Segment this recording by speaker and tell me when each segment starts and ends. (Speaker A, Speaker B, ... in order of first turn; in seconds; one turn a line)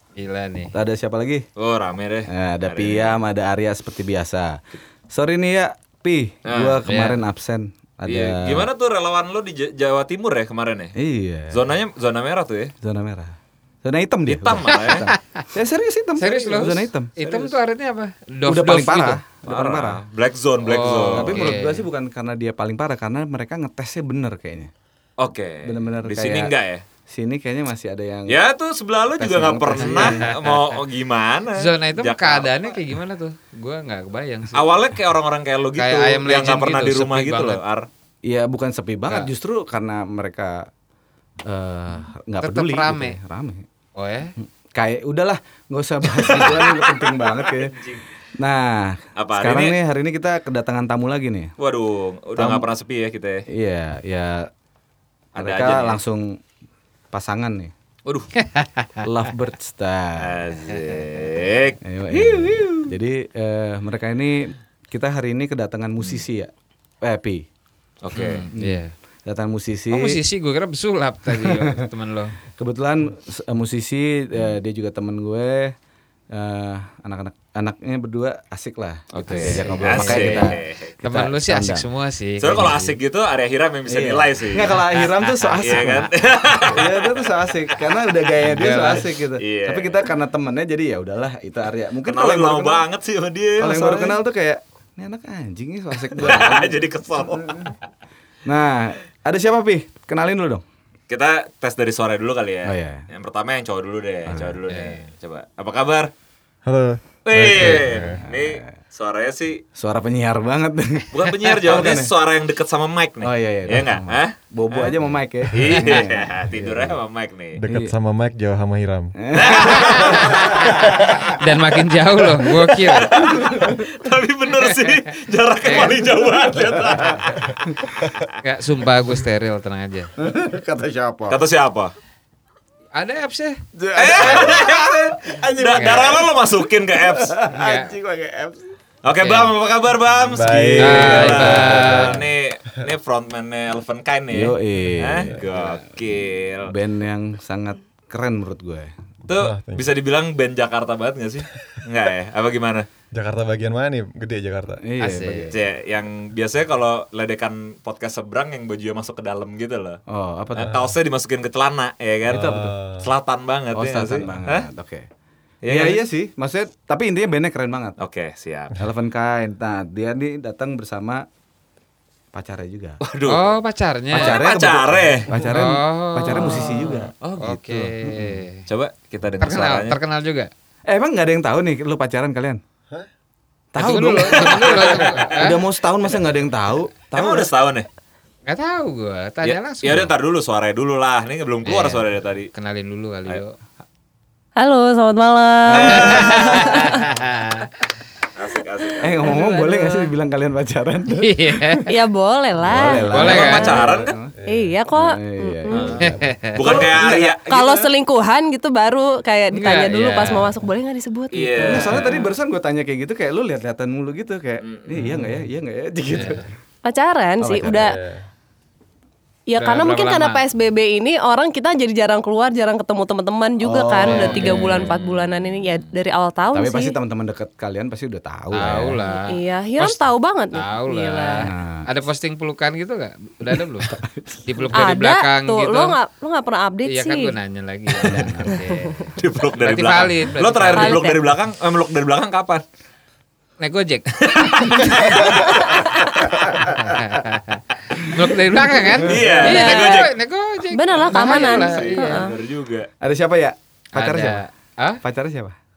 Speaker A: 0.2-0.7
Speaker B: 0.7-1.4
Speaker C: 1.6-3.2
Speaker B: 2.3-8.7
Speaker C: 6.4-6.8
Speaker A: 6.8-7.2
Speaker C: 8.1-11.0
Speaker B: 11.0-11.6
Speaker C: 11.5-12.7
Speaker B: 12.8-17.6
Speaker C: 14.3-15.1
Speaker A: 14.9-15.5
Speaker A: 16.2-19.2
Speaker B: 18.4-20.0
Speaker C: 19.4-21.6
Speaker A: 20.6-21.9
Speaker B: 21.1-24.7
Speaker C: 25.2-26.8
Speaker B: 25.6-26.5
Speaker B: 27.1-28.4
Speaker C: 28.3-32.8
Speaker A: 29.3-30.8
Speaker B: 29.3-30.2
Speaker A: 31.5-34.6
Speaker C: 34.5-37.9
Speaker A: 35.7-37.6
Speaker B: 38.2-40.7
Speaker B: 41.5-43.7
Speaker A: 42.4-43.2
Speaker A: 44.0-44.3
Speaker B: 44.4-47.8
Speaker C: 46.2-48.0
Speaker B: 48.4-51.5
Speaker C: 49.1-49.8
Speaker C: 51.6-53.5
Speaker B: 52.4-52.7
Speaker B: 53.5-54.5
Speaker C: 55.3-56.0
Speaker B: 55.4-56.4
Speaker B: 57.1-57.7
Speaker C: 58.0-58.3
Speaker A: 58.4-59.1
Speaker B: 59.0-60.4
Speaker C: 60.2-62.7
Speaker A: 60.7-61.0
Speaker B: 61.8-66.5
Speaker B: 67.0-67.5
Speaker C: 68.0-68.5
Speaker A: 68.1-68.9
Speaker B: 68.5-70.2
Speaker A: 69.9-72.3
Speaker B: 71.3-71.8
Speaker B: 72.5-75.7
Speaker B: 76.3-81.9
Speaker C: 79.1-80.9
Speaker A: 79.3-83.0
Speaker C: 82.4-84.8
Speaker B: 83.9-86.1
Speaker A: 84.9-86.1
Speaker C: 85.6-87.3
Speaker B: 86.6-92.8
Speaker A: 88.4-89.1
Speaker C: 89.4-90.1
Speaker C: 92.0-94.2
Speaker B: 93.6-97.7
Speaker C: 96.1-97.7
Speaker B: 98.4-100.6
Speaker C: 101.1-106.1
Speaker B: 102.6-103.0
Speaker B: 104.3-104.6
Speaker A: 104.7-105.0
Speaker D: 106.6-108.2
Speaker C: 107.2-109.6
Speaker B: 107.5-108.7
Speaker B: 109.8-112.1
Speaker C: 111.1-117.6
Speaker B: 113.2-117.0
Speaker D: 117.5-119.7
Speaker B: 119.2-121.2
Speaker C: 119.3-120.8
Speaker A: 120.0-120.8
Speaker A: 121.4-123.4
Speaker C: 122.7-127.6
Speaker B: 123.4-123.8
Speaker A: 124.5-125.0
Speaker A: 125.6-126.0
Speaker A: 128.4-130.1
Speaker B: 130.2-131.4
Speaker C: 131.3-131.9
Speaker A: 132.9-133.6
Speaker B: 133.7-136.3
Speaker C: 133.9-137.4
Speaker A: 135.7-136.1
Speaker B: 137.0-138.7
Speaker A: 137.5-137.9
Speaker C: 139.0-146.7
Speaker A: 139.2-139.5
Speaker D: 140.2-142.2
Speaker A: 140.8-142.2
Speaker B: 144.3-145.9
Speaker B: 146.7-148.9
Speaker C: 149.3-152.9
Speaker D: 149.3-149.9
Speaker D: 153.1-154.8
Speaker B: 154.8-155.6
Speaker A: 155.0-155.5
Speaker C: 155.5-160.0
Speaker B: 160.1-160.8
Speaker C: 160.5-164.7
Speaker B: 162.3-162.7
Speaker D: 162.3-163.1
Speaker B: 163.7-165.1
Speaker C: 165.6-166.0
Speaker B: 165.7-168.0
Speaker C: 168.0-168.8
Speaker B: 168.7-171.2
Speaker B: 172.3-173.0
Speaker C: 173.0-173.6
Speaker A: 173.3-174.4
Speaker B: 174.1-177.1
Speaker C: 174.1-175.3
Speaker A: 175.3-178.6
Speaker C: 176.3-177.9
Speaker C: 178.7-180.0
Speaker A: 179.4-180.5
Speaker B: 180.9-182.6
Speaker B: 183.7-187.5
Speaker A: 183.8-185.7
Speaker C: 184.3-185.4
Speaker C: 187.1-187.9
Speaker A: 188.4-190.1
Speaker C: 189.4-192.5
Speaker A: 191.6-193.5
Speaker E: 194.6-197.0
Speaker B: 195.7-196.7
Speaker C: 195.8-196.6
Speaker A: 196.0-197.7
Speaker C: 198.3-199.4
Speaker B: 199.0-201.9
Speaker E: 199.2-200.0
Speaker A: 201.2-201.9
Speaker E: 201.9-203.8
Speaker B: 202.6-204.3
Speaker A: 203.0-203.8
Speaker C: 203.1-204.1
Speaker D: 203.8-204.7
Speaker E: 204.5-206.0
Speaker B: 204.9-207.4
Speaker C: 205.7-207.9
Speaker A: 206.0-206.6
Speaker E: 207.4-212.1
Speaker B: 209.5-209.9
Speaker A: 209.6-210.6
Speaker C: 211.3-212.2
Speaker B: 211.6-216.5
Speaker C: 214.6-215.2
Speaker A: 216.1-216.5
Speaker E: 216.8-218.0
Speaker B: 217.4-217.8
Speaker D: 217.6-218.2
Speaker E: 219.5-226.9
Speaker A: 219.6-220.4
Speaker B: 223.6-224.8
Speaker A: 224.0-224.9
Speaker C: 224.6-225.8
Speaker B: 226.5-229.0
Speaker A: 228.5-230.0
Speaker E: 229.1-231.5
Speaker A: 230.5-236.0
Speaker B: 231.4-231.9
Speaker B: 233.4-234.8
Speaker E: 234.7-237.3
Speaker A: 236.9-241.2
Speaker B: 238.0-238.6
Speaker E: 238.5-238.9
Speaker C: 239.2-242.6
Speaker E: 240.7-241.2
Speaker A: 243.6-245.0
Speaker C: 244.2-245.5
Speaker D: 245.0-245.6
Speaker E: 245.0-246.3
Speaker A: 246.7-252.3
Speaker B: 248.9-249.5
Speaker C: 249.0-250.1
Speaker E: 249.4-250.1
Speaker E: 250.7-252.3
Speaker C: 251.2-252.9
Speaker B: 253.0-254.4
Speaker A: 253.9-255.0
Speaker B: 255.0-255.6